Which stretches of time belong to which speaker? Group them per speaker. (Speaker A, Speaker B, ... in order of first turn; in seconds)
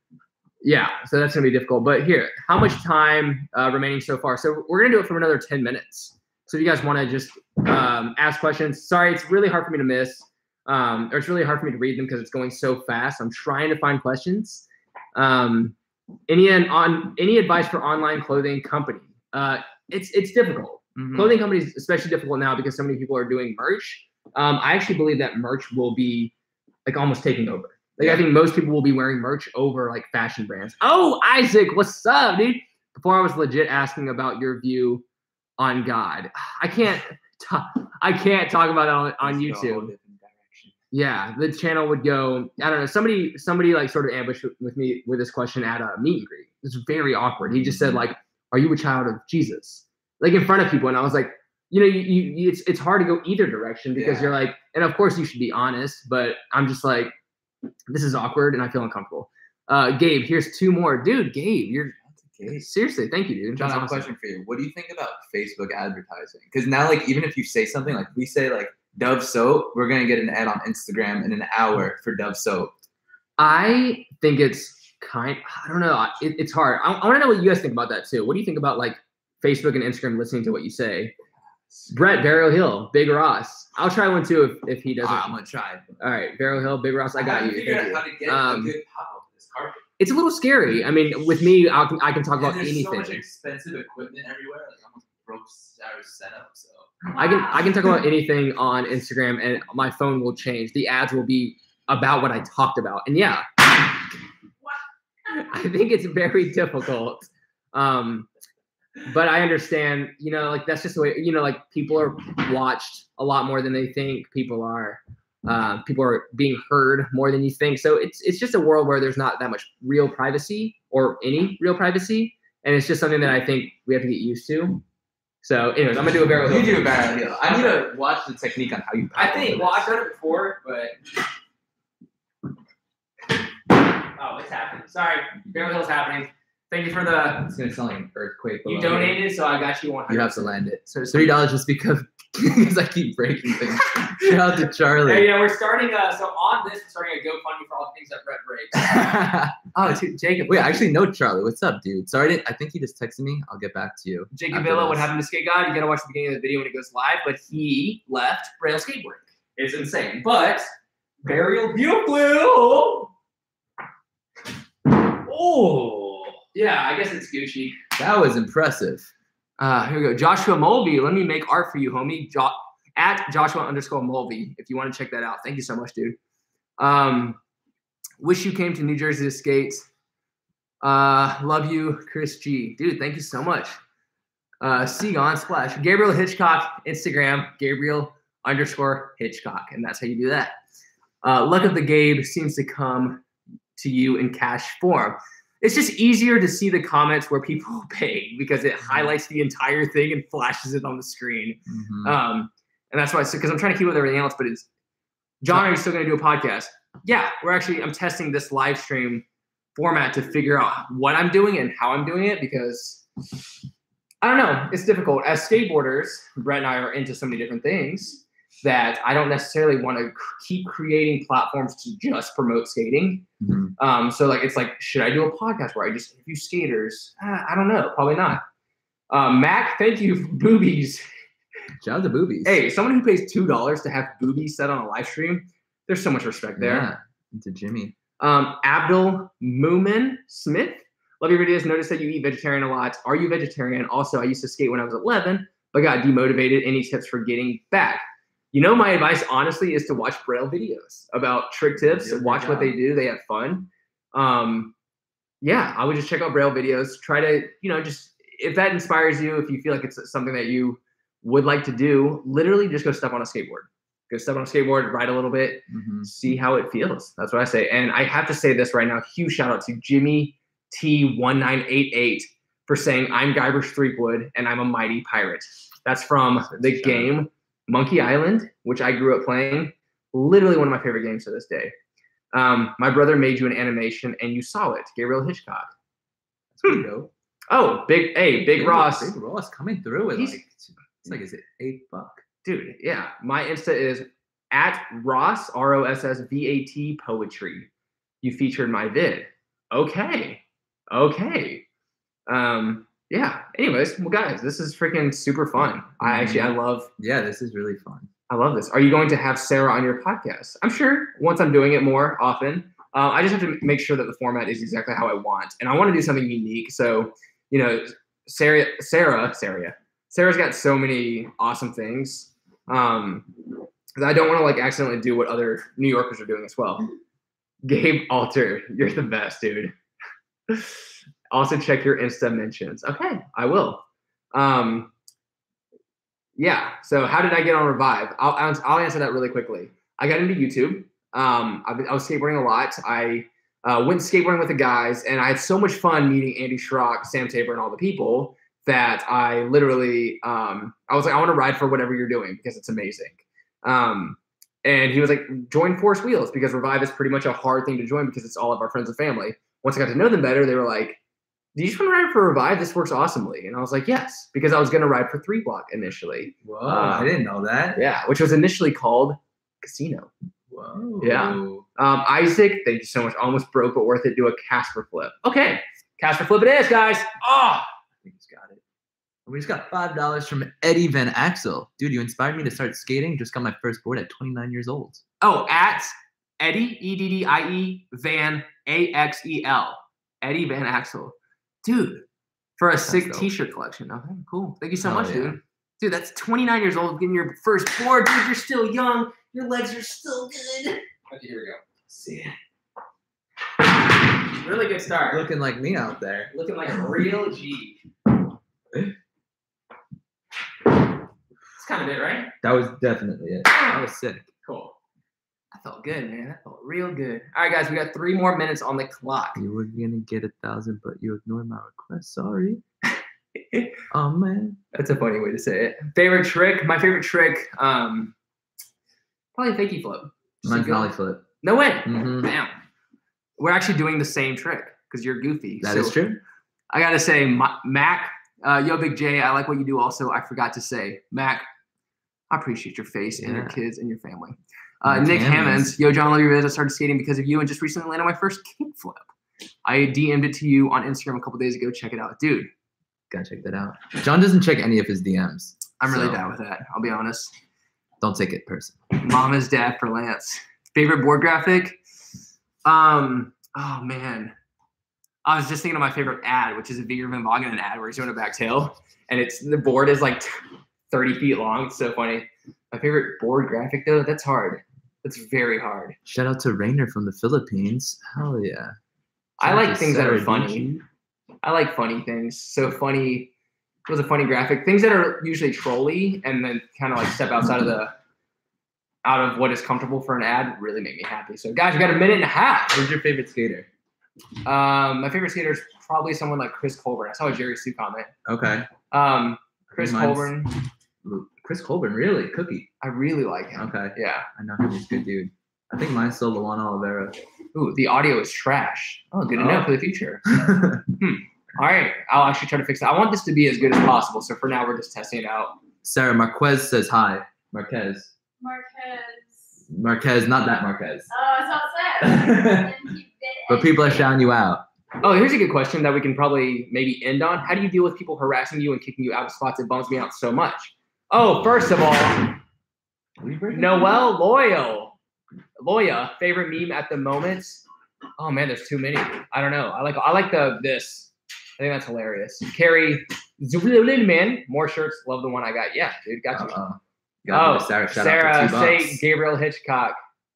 Speaker A: 0.6-15.8, 16.3-26.3, 26.9-35.0, 35.6-39.9, 40.9-57.1, 57.9-64.1, 73.4-81.1, 81.9-85.4, 86.0-88.8, 90.0-93.2, 97.2-103.6, 105.3-108.3, 109.0-124.8, 125.4-127.9, 129.2-131.0, 134.2-137.5, 138.7-141.4, 144.1-149.1, 149.7-150.9, 154.3-160.7, 161.2-163.1, 165.3-167.8, 169.6-176.2, 176.8-177.4, 178.2-179.9, 180.8-183.8, 184.6-190.6, 191.2-193.2, 193.8-204.7, 205.4-213.1, 214.2-223.3, 223.8-228.4, 229.1-231.1, 232.4-236.9, 238.2-254.7, 255.4-281.7, 282.3-285.7, 287.5-289.1, 290.1-290.4, 292.4-297.7, 298.2-301.6, 302.3-306.9, 308.3-323.3, 324.0-326.9, 327.6-329.7, 330.5-334.9, 336.4-361.0, 361.6-367.1, 367.8-370.1, 371.0-377.7, 385.2-392.1, 392.6-401.6, 404.3-405.2, 406.3-407.8, 411.6-412.3, 413.5-413.9, 414.4-414.8, 415.5-419.4, 424.7-428.1, 429.4-432.5, 433.4-436.0, 436.7-441.4, 442.3-449.1, 449.6-452.5, 455.8-457.3, 459.0-461.8, 462.6-464.4, 465.2-470.3, 470.9-476.0, 479.4-480.7, 481.4-483.3, 483.9-487.9, 489.1-492.8, 494.4-498.1, 498.9-500.6, 502.8-504.3, 507.5-515.6, 525.0-532.4, 533.5-535.0, 535.6-537.6, 538.2-546.6, 547.3-550.0
Speaker B: 21.0-21.4, 39.2-40.8, 47.6-48.0, 54.0-54.3, 62.0-62.7, 63.5-72.8, 85.0-86.0, 87.1-89.8, 92.4-97.0, 126.4-129.9, 137.5-139.2, 140.1-145.3, 148.7-149.6, 150.5-155.1, 168.0-169.1, 198.9-199.1, 201.7-202.2, 223.4-223.7, 231.8-232.6, 236.6-238.0, 251.8-252.8, 265.7-266.1, 276.4-277.1, 286.5-287.1, 288.4-292.2, 306.0-308.1, 366.4-367.8, 370.5-371.6, 378.0-378.6, 379.3-385.0, 392.9-393.3, 394.8-395.4, 401.9-402.3, 405.1-406.3, 412.4-414.3, 419.4-422.6, 423.9-424.6, 430.4-431.2, 431.9-432.3, 435.6-436.2, 443.2-443.6, 444.9-445.7, 453.1-456.2, 458.0-458.8, 476.1-478.8, 479.4-480.8, 492.7-493.7, 498.3-498.7, 499.8-500.3, 501.0-502.7, 503.6-507.2, 509.3-509.7, 510.3-510.9, 515.8-518.1, 519.7-521.1, 522.0-522.7, 523.5-524.6, 533.2-534.1, 546.3-549.0
Speaker C: 518.4-519.4, 521.1-524.0